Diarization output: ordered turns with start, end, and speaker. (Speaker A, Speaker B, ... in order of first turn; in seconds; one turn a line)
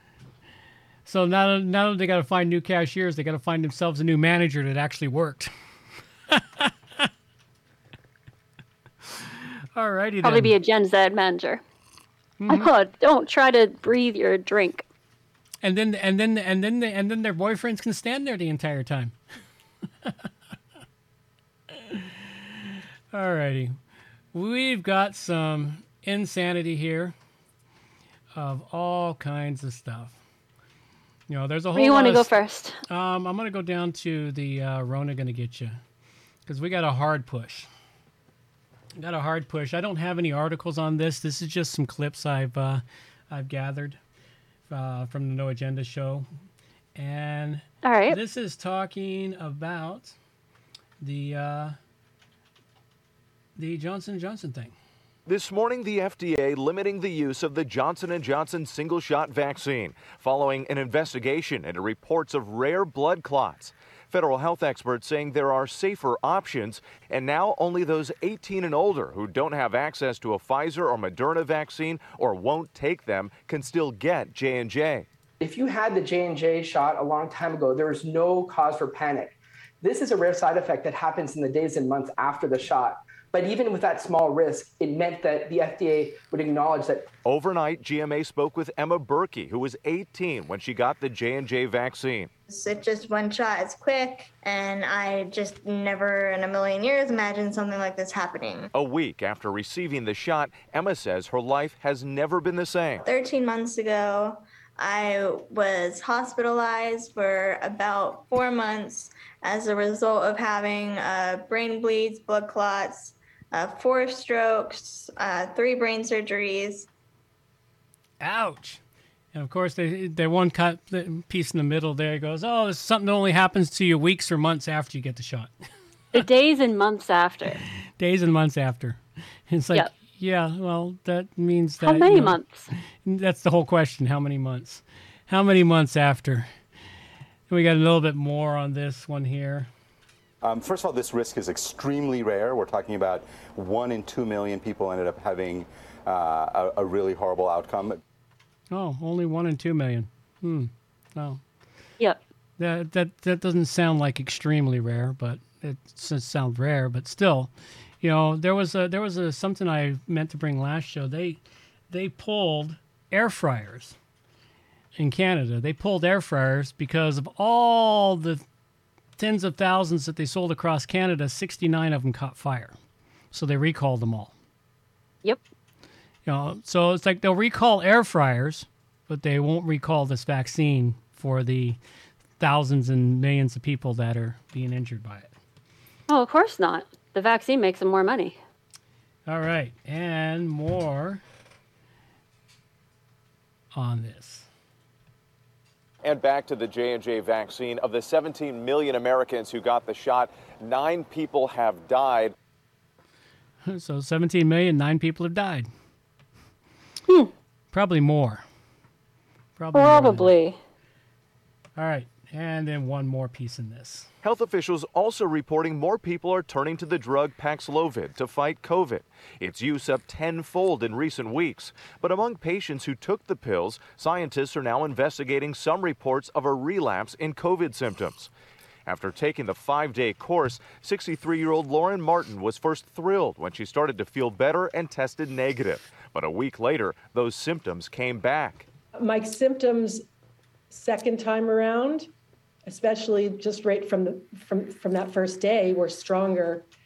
Speaker A: 1.1-5.5
Speaker A: 6.3-7.1
Speaker A: 9.0-10.5
Speaker B: 10.2-11.6
Speaker A: 12.4-12.7
Speaker B: 12.5-14.8
Speaker A: 15.6-19.1
Speaker A: 20.0-20.3
Speaker A: 21.7-23.8
Speaker A: 24.3-27.1
Speaker A: 28.3-30.2
Speaker A: 31.3-32.3
Speaker B: 31.7-32.8
Speaker A: 32.9-35.8
Speaker A: 36.5-37.7
Speaker A: 39.0-44.0
Speaker A: 44.7-46.3
Speaker A: 46.9-50.1
Speaker B: 47.8-48.2
Speaker A: 51.0-51.8
Speaker A: 53.5-54.8
Speaker C: 55.3-75.1
Speaker D: 75.4-87.1
Speaker C: 87.2-92.3
Speaker E: 92.5-98.7
Speaker C: 98.7-103.0
Speaker E: 103.0-116.9
Speaker A: 118.2-118.8
Speaker A: 119.3-125.5
Speaker B: 126.1-127.6
Speaker A: 128.0-136.5
Speaker B: 131.8-132.7
Speaker A: 137.5-139.7
Speaker F: 140.4-148.0
Speaker A: 148.7-151.4
Speaker A: 152.6-164.0
Speaker A: 164.9-168.4
Speaker A: 169.2-172.8
Speaker A: 173.3-174.3
Speaker A: 176.2-181.8
Speaker A: 182.4-185.3
Speaker B: 186.1-188.4
Speaker A: 189.3-191.2
Speaker A: 193.7-194.5
Speaker C: 196.0-202.3
Speaker A: 203.6-205.7
Speaker A: 207.7-208.4
Speaker A: 209.6-210.3
Speaker B: 209.7-210.6
Speaker A: 211.8-214.1
Speaker C: 214.2-228.3
Speaker C: 228.8-238.7
Speaker G: 239.0-240.0
Speaker G: 240.7-242.1
Speaker G: 242.7-246.7